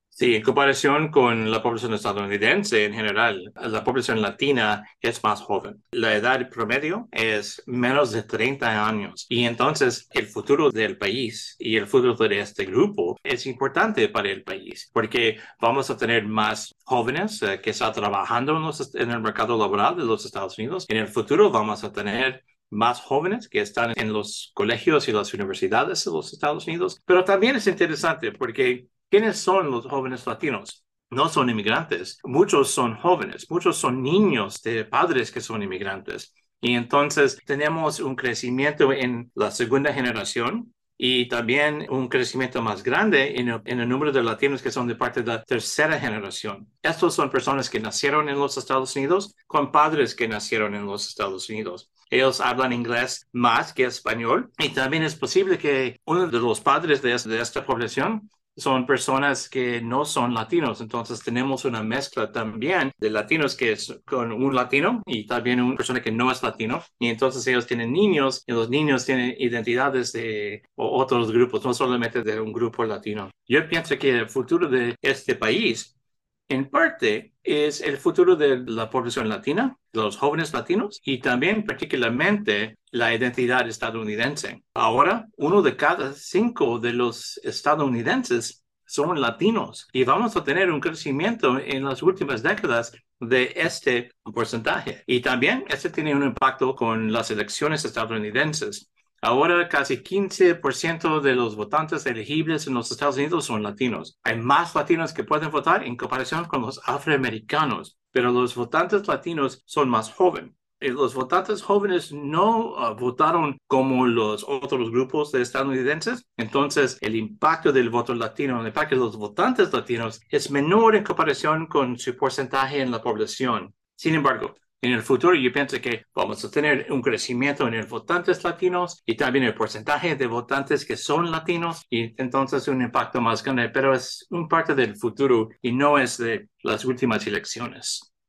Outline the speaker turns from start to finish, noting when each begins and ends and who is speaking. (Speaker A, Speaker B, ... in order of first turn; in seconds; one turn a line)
Speaker A: 0.2-75.9
Speaker A: 76.5-138.1